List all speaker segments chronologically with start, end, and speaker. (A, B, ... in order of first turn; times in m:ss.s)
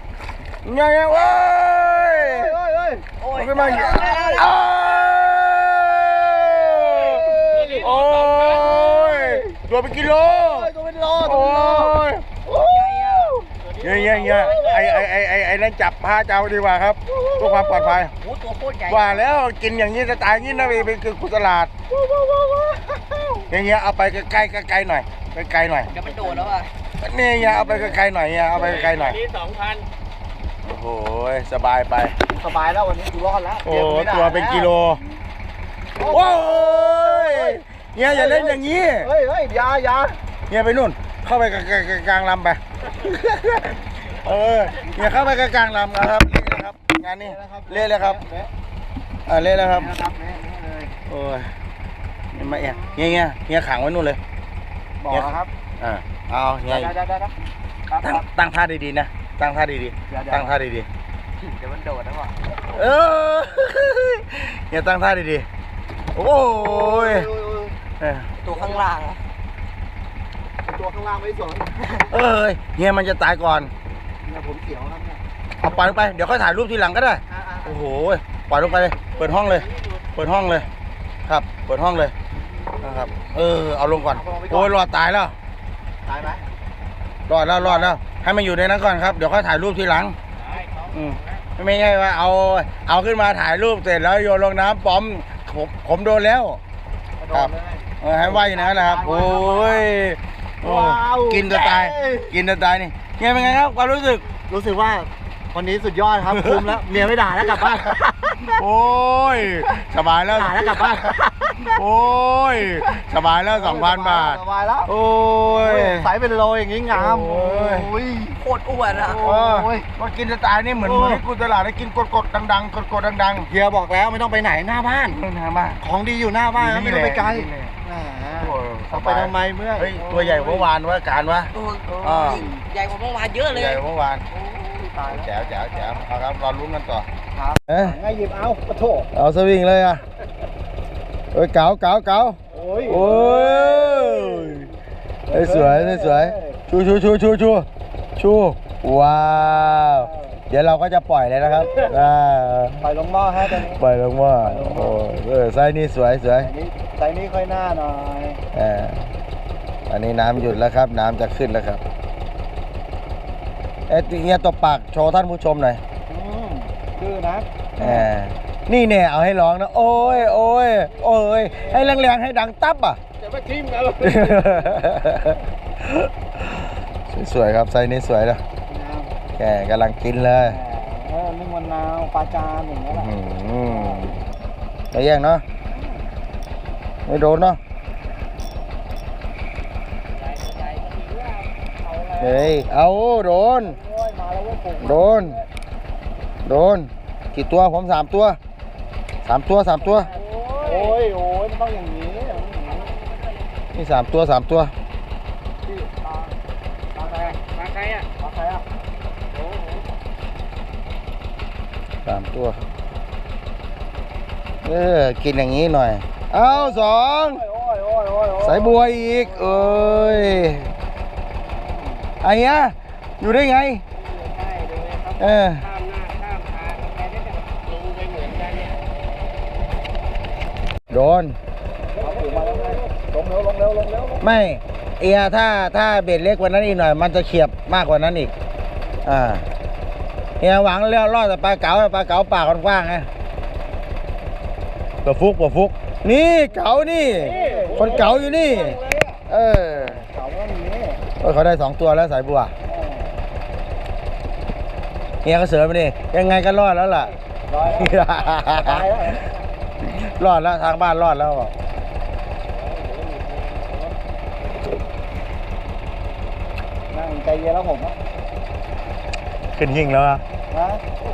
0:00.6-0:02.6 A
0:02.0-0:03.1 B
0:03.2-0:04.5 C
0:03.3-0:12.2 A
0:06.5-0:07.8 B
0:07.6-0:08.7 D
0:08.8-0:09.5 B
0:10.2-0:12.0 B
0:12.5-0:14.7 C
0:13.7-0:14.5 D
0:13.8-0:18.1 A
0:17.1-0:18.0 B
0:18.2-0:19.3 C
0:18.9-0:21.7 A
0:20.3-0:20.9 B
0:21.9-0:23.5 B
0:23.5-0:25.9 A
0:25.9-0:26.7 C
0:25.9-0:26.6 B
0:27.0-0:29.2 A
0:27.4-0:28.0 B
0:28.7-0:29.9 D
0:30.6-0:32.2 A
0:32.3-0:34.7 B
0:33.6-0:35.0 A
0:36.0-0:40.2 B
0:36.0-0:39.1 A
0:40.5-0:48.2 A
0:47.2-0:48.5 B
0:49.3-0:49.9 A
0:49.5-0:51.0 B
0:51.1-0:51.5 A
0:52.3-0:54.2 A
0:52.4-0:53.2 B
0:55.0-0:55.5 B
0:55.1-0:57.0 A
0:56.7-0:57.4 B
0:57.9-0:58.3 B
0:58.0-1:00.9 A
1:00.1-1:00.5 B
1:01.4-1:02.4 C
1:02.7-1:05.5 A
1:06.1-1:07.3 A
1:06.5-1:07.8 B
1:08.0-1:08.3 A
1:08.4-1:09.2 C
1:10.6-1:11.7 B
1:11.8-1:12.1 C
1:12.1-1:13.7 A
1:14.2-1:15.2 B
1:15.6-1:20.7 A
1:17.3-1:17.9 B
1:21.3-1:22.1 A
1:22.5-1:23.1 B
1:22.8-1:25.4 A
1:24.0-1:24.8 B
1:26.0-1:26.4 B
1:27.3-1:30.2 A
1:27.6-1:27.9 B
1:30.5-1:31.3 D
1:30.9-1:36.6 A
1:37.2-1:39.8 B
1:37.3-1:44.3 A
1:40.6-1:42.4 B
1:44.4-1:48.6 B
1:46.3-1:48.0 A
1:48.5-1:56.1 A
1:50.3-1:51.8 B
1:53.5-1:54.9 B
1:55.5-1:59.9 B
1:56.9-1:57.9 A
1:58.4-1:59.2 C
1:59.2-2:03.5 A
2:00.8-2:01.2 B
2:03.5-2:05.2 B
2:05.1-2:05.8 A
2:05.8-2:10.7 B
2:06.6-2:07.8 A
2:08.4-2:12.6 A
2:11.5-2:13.8 C
2:13.5-2:14.2 A
2:14.3-2:16.0 B
2:15.0-2:17.1 A
2:17.3-2:19.1 B
2:17.7-2:18.0 A
2:19.1-2:20.0 A
2:21.3-2:24.7 A
2:22.5-2:24.7 B
2:25.3-2:26.6 B
2:25.3-2:32.9 A
2:29.4-2:30.4 B
2:32.8-2:33.8 B
2:33.4-2:36.5 A
2:34.4-2:35.0 B
2:36.4-2:38.4 B
2:38.5-2:39.1 A
2:39.9-2:41.8 A
2:43.9-2:45.8 A
2:46.1-2:48.1 B
2:47.8-2:53.0 A
2:51.5-2:52.0 B
2:53.5-2:53.8 C
2:53.7-2:54.0 D
2:54.0-2:58.4 A
2:58.7-2:59.1 B
2:59.4-3:00.6 A
3:00.4-3:03.1 B
3:02.9-3:04.2 A
3:03.7-3:04.1 B
3:04.9-3:05.4 A
3:05.7-3:06.0 B
3:07.1-3:07.6 A
3:10.1-3:11.5 D
3:11.8-3:12.6 B
3:12.2-3:13.8 A
3:13.6-3:15.5 B
3:14.8-3:15.4 A
3:16.4-3:18.4 A
3:19.2-3:20.1 A
3:20.1-3:20.7 D
3:20.2-3:22.9 B
3:22.2-3:23.5 C
3:23.7-3:24.7 A
3:25.6-3:26.4 B
3:26.9-3:27.4 B
3:27.1-3:28.1 D
3:28.2-3:28.7 B
3:32.0-3:32.7 A
3:34.6-3:37.4 A
3:36.4-3:40.3 B
3:38.4-3:40.7 A
3:41.5-3:42.1 B
3:42.2-3:43.8 A
3:44.7-3:49.1 D
3:45.2-3:45.7 A
3:50.9-3:51.4 A
3:52.0-3:54.2 B
3:52.3-3:52.8 D
3:54.2-3:58.3 A
3:59.0-3:59.4 A
4:00.4-4:03.1 A
4:05.0-4:10.1 A
4:07.1-4:08.3 B
4:07.3-4:09.2 D
4:08.1-4:08.6 C
4:09.7-4:11.0 B
4:11.2-4:12.5 A
4:12.6-4:13.2 B
4:15.2-4:17.2 A
4:17.5-4:19.3 B
4:17.7-4:19.1 A
4:19.8-4:21.5 A
4:22.6-4:23.9 D
4:26.9-4:28.0 B
4:29.5-4:30.2 A
4:30.5-4:30.8 B